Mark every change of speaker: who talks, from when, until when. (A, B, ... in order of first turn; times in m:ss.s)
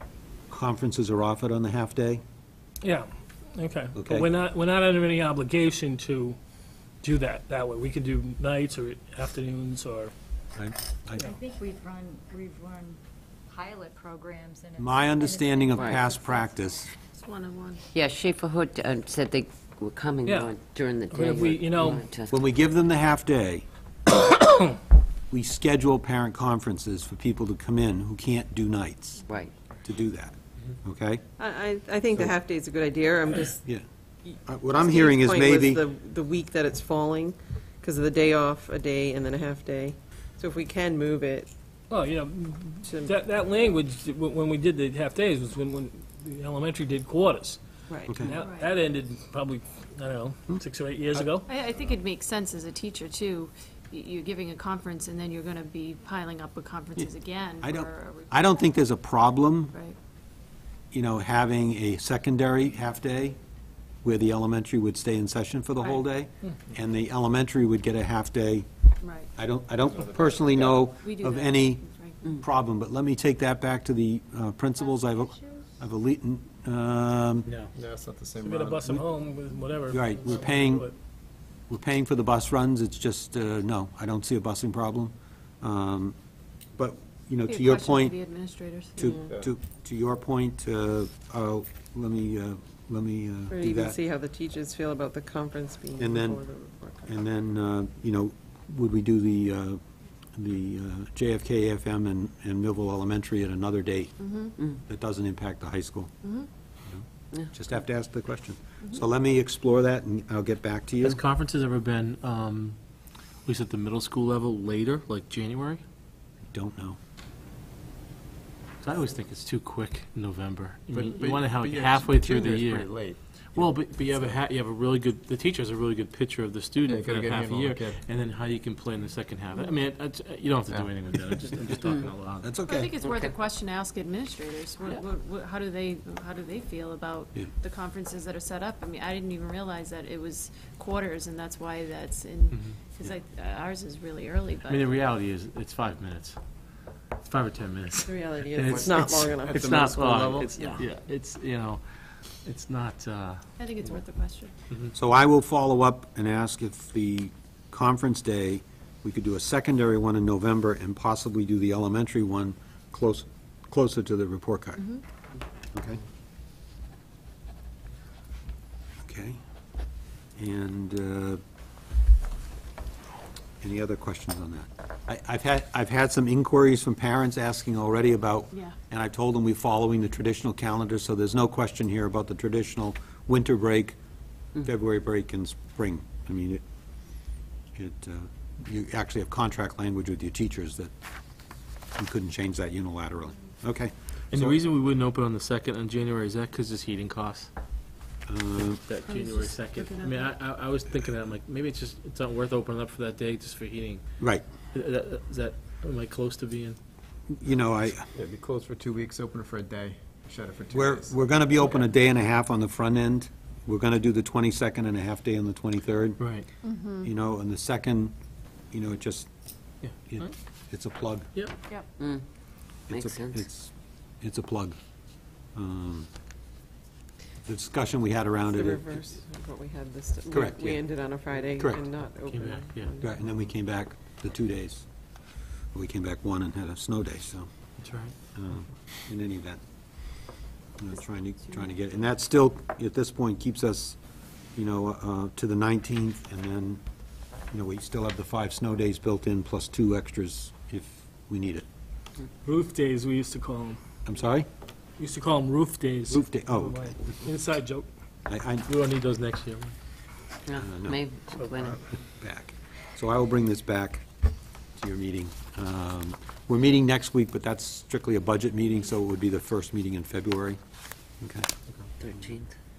0:00.5-0:02.2 A
0:02.8-0:06.4 B
0:04.0-0:04.3 A
0:07.0-0:10.1 B
0:10.6-0:11.3 A
0:11.2-0:16.9 C
0:14.8-0:16.9 A
0:15.8-0:16.0 D
0:17.1-0:17.8 E
0:17.9-0:22.4 D
0:20.2-0:20.5 B
0:21.1-0:22.0 B
0:22.3-0:23.6 A
0:25.3-0:29.2 A
0:29.3-0:29.5 D
0:29.8-0:31.2 A
0:31.4-0:33.6 F
0:34.2-0:41.5 F
0:34.4-0:35.8 A
0:41.9-0:47.6 B
0:42.8-0:43.2 F
0:47.9-0:48.2 F
0:48.1-0:48.3 A
0:48.1-0:51.5 B
0:48.3-0:48.7 E
0:51.4-0:58.8 E
0:57.6-0:59.7 A
0:59.7-1:00.0 E
1:00.9-1:03.4 A
1:04.0-1:08.7 A
1:09.0-1:09.3 E
1:09.4-1:11.8 A
1:09.9-1:10.8 G
1:10.9-1:12.3 E
1:12.4-1:17.5 A
1:15.0-1:15.6 C
1:17.4-1:17.7 H
1:17.7-1:18.9 G
1:18.4-1:20.9 B
1:19.9-1:20.9 A
1:21.7-1:26.1 A
1:26.8-1:28.2 A
1:27.5-1:29.1 E
1:29.0-1:34.0 A
1:29.2-1:29.5 G
1:33.5-1:37.1 F
1:36.0-1:36.4 A
1:37.1-1:39.8 A
1:40.4-1:44.1 A
1:44.2-1:44.6 E
1:44.8-1:46.1 A
1:46.8-1:51.2 A
1:51.0-1:52.8 H
1:53.4-1:55.8 H
1:56.5-1:57.0 A
1:58.8-2:02.9 H
2:00.9-2:04.4 G
2:03.5-2:12.5 H
2:06.8-2:08.0 G
2:12.4-2:12.9 A
2:12.7-2:25.0 E
2:22.5-2:22.8 H
2:24.6-2:26.4 H
2:27.2-2:33.4 H
2:28.0-2:29.6 F
2:29.5-2:30.8 G
2:33.6-2:34.5 E
2:34.9-2:44.8 A
2:45.7-2:46.0 A
2:49.0-2:49.4 A
2:50.4-2:51.4 A
2:53.6-3:04.0 A
3:04.6-3:06.6 A
3:07.7-3:10.9 A
3:12.0-3:14.6 A
3:14.3-3:17.5 H
3:18.3-3:18.8 A
3:18.6-3:24.1 H
3:19.0-3:20.3 E
3:24.7-3:26.8 H
3:27.3-3:28.0 A
3:28.1-3:31.3 G
3:30.7-3:36.2 A
3:36.2-3:36.4 H
3:36.6-3:37.1 E
3:37.0-3:38.1 A
3:38.7-3:39.3 A
3:39.8-3:40.3 H
3:40.1-3:41.3 A
3:42.0-3:42.2 D
3:42.9-3:43.5 D
3:42.9-3:44.8 A
3:45.5-3:46.1 A
3:47.4-3:48.8 A
3:48.5-3:53.1 F
3:50.3-3:50.8 A
3:52.2-3:53.0 H
3:53.0-3:54.8 A
3:55.7-3:57.5 A
3:57.8-3:58.1 H
3:58.3-3:59.6 A
4:00.8-4:04.0 A
4:04.6-4:06.8 A
4:07.5-4:11.6 A
4:12.4-4:13.8 B
4:14.0-4:14.5 A
4:15.0-4:17.9 B
4:16.1-4:17.0 A
4:18.3-4:18.7 A
4:18.7-4:19.7 H
4:20.5-4:21.8 D
4:20.6-4:21.0 A
4:21.5-4:24.0 A
4:24.8-4:30.6 A
4:31.2-4:31.5 A
4:32.0-4:32.5 D